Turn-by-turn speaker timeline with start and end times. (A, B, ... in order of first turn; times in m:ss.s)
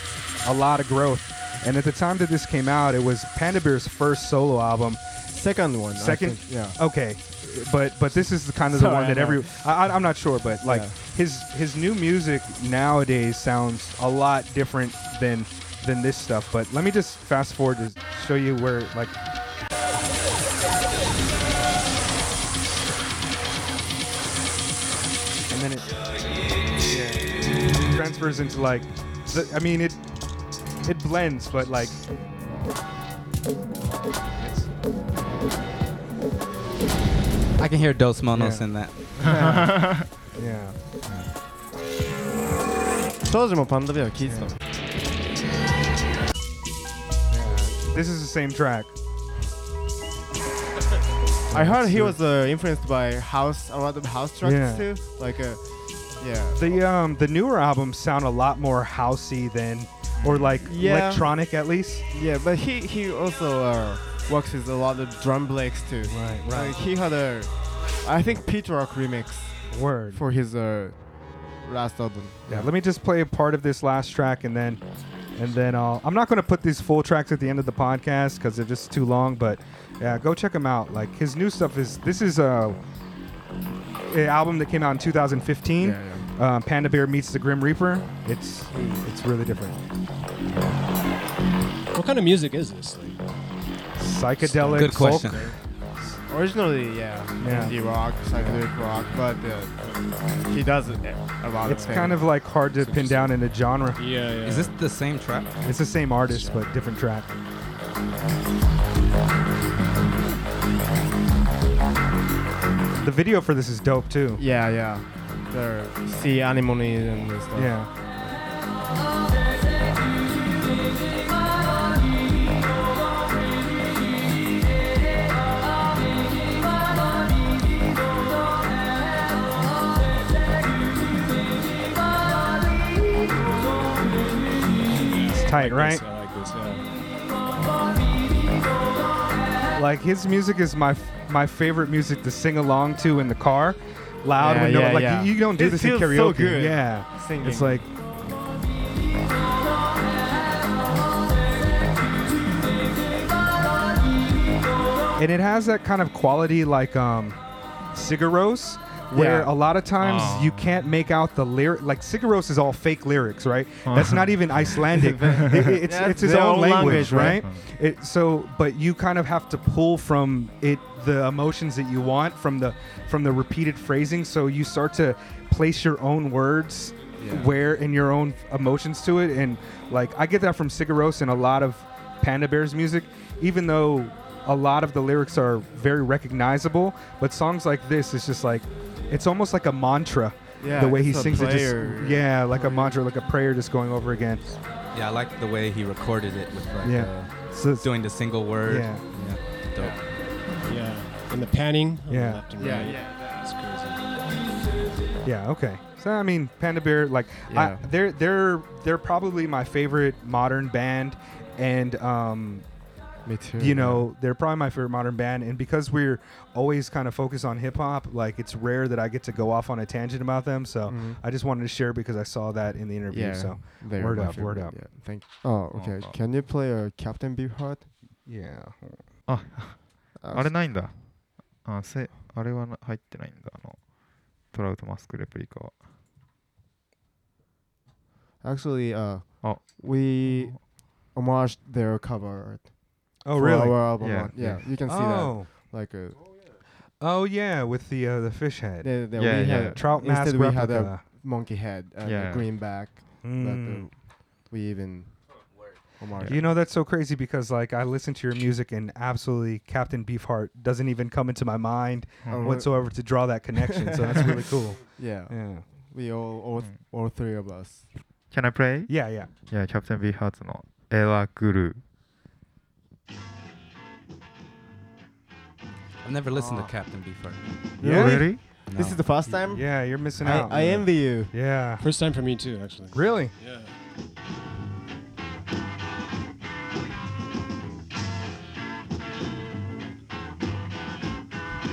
0:00.4-0:05.1 A
0:05.3-0:06.8 B
0:06.0-0:19.1 A
0:08.7-0:09.6 B
0:10.6-0:11.1 B
0:25.5-0:26.0 A
0:26.8-0:30.0 A
0:30.8-0:32.0 A
0:34.4-0:34.7 A
0:37.6-0:39.0 C
0:38.3-0:38.7 A
0:39.2-0:40.1 B
0:40.3-0:41.0 A
0:43.2-0:44.6 B
0:44.2-0:44.5 A
0:47.3-0:48.9 A
0:51.5-0:52.2 A
0:51.5-0:56.8 B
0:54.4-0:55.0 A
0:56.6-1:02.1 A
1:00.2-1:00.6 D
1:00.6-1:01.4 B
1:02.1-1:12.7 B
1:06.1-1:06.8 A
1:09.7-1:10.2 A
1:12.5-1:14.8 A
1:15.3-1:22.8 A
1:24.0-1:29.8 A
1:25.8-1:26.3 B
1:28.7-1:29.0 E
1:31.9-1:33.2 E
1:34.0-1:35.5 A
1:34.6-1:35.5 E
1:34.7-1:35.4 C
1:36.3-1:39.7 B
1:37.4-1:38.6 A
1:40.4-1:42.3 B
1:41.6-1:44.0 A
1:41.7-1:43.4 E
1:44.0-1:44.7 E
1:44.4-1:45.5 C
1:45.6-1:47.3 A
1:46.3-1:46.6 E
1:53.0-1:54.4 A
1:54.4-1:57.8 B
1:57.6-1:57.9 A
2:15.0-2:16.9 E
2:15.3-2:16.0 A
2:19.7-2:27.9 A
2:24.4-2:27.8 B
2:35.2-2:37.4 A
2:37.9-3:14.5 A
2:39.1-2:39.5 B
2:40.0-2:41.0 D
2:43.8-2:44.9 D
2:44.9-2:47.5 B
2:46.8-2:47.7 D
2:57.2-2:57.5 B
3:10.6-3:13.0 B
3:14.9-3:20.1 C
3:16.8-3:19.2 A
3:19.8-3:20.1 B
3:20.6-3:24.0 E
3:22.1-3:22.6 A
3:22.6-3:23.3 B
3:25.2-3:32.7 A
3:27.5-3:27.9 B
3:33.2-3:34.1 B
3:33.6-3:44.9 A
3:40.9-3:41.2 B
3:43.1-3:47.9 B
3:45.7-3:46.2 D
3:48.2-3:49.1 A
3:49.3-3:55.8 D
3:50.2-3:50.9 B
3:58.4-4:06.4 B
3:59.4-4:00.5 D
4:03.2-4:04.0 A
4:04.0-4:04.7 D
4:04.9-4:05.6 A
4:07.0-4:11.1 A
4:08.8-4:15.3 B
4:09.2-4:09.8 D
4:12.0-4:12.5 D
4:13.2-4:14.0 A
4:16.0-4:16.6 B
4:16.2-4:16.4 D
4:16.2-4:25.7 A
4:22.3-4:27.9 B
4:28.3-4:31.8 D
4:28.9-4:29.3 A
4:36.0-4:37.4 C
4:36.3-4:36.7 B
4:37.8-4:38.5 A
4:37.8-4:38.4 D
4:37.8-4:41.4 B
4:38.7-4:39.4 C
4:39.5-4:41.9 A
4:41.8-4:43.7 E
4:42.9-4:43.4 A